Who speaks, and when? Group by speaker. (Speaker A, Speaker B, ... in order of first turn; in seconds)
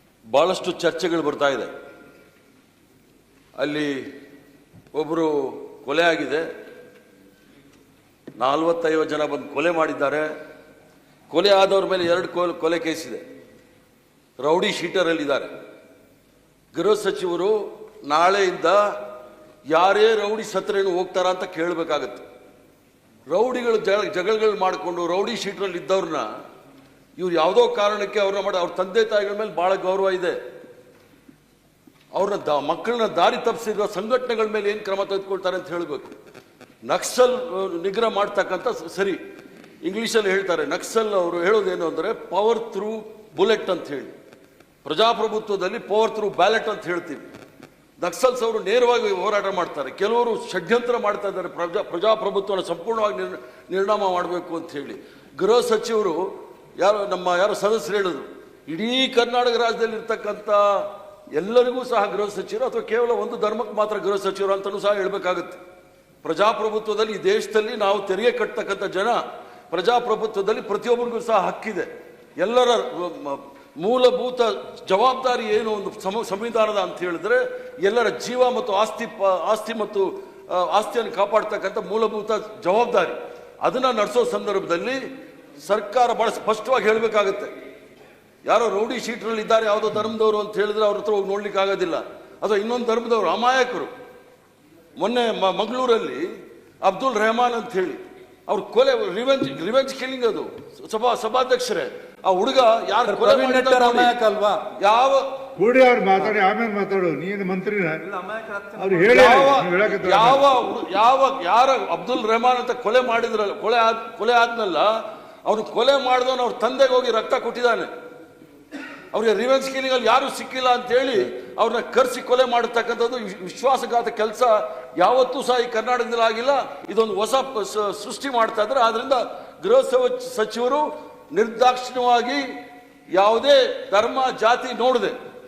Speaker A: 0.3-1.7, 3.6-4.0, 4.9-6.5, 8.4-10.3, 11.3-13.2, 14.4-15.5, 16.7-18.9, 19.7-22.2, 23.3-26.3, 27.2-30.4, 32.1-36.1, 36.9-39.2, 39.8-44.1, 44.8-47.2, 48.0-65.6, 66.2-71.9, 72.4-85.0, 85.6-87.5, 88.5-93.9, 95.0-104.1, 104.8-105.3, 109.1-114.9, 115.5-117.9, 119.1-132.5, 133.1-135.1
Speaker B: 103.0-104.6, 108.0-109.4
Speaker C: 105.6-108.0, 108.8-110.4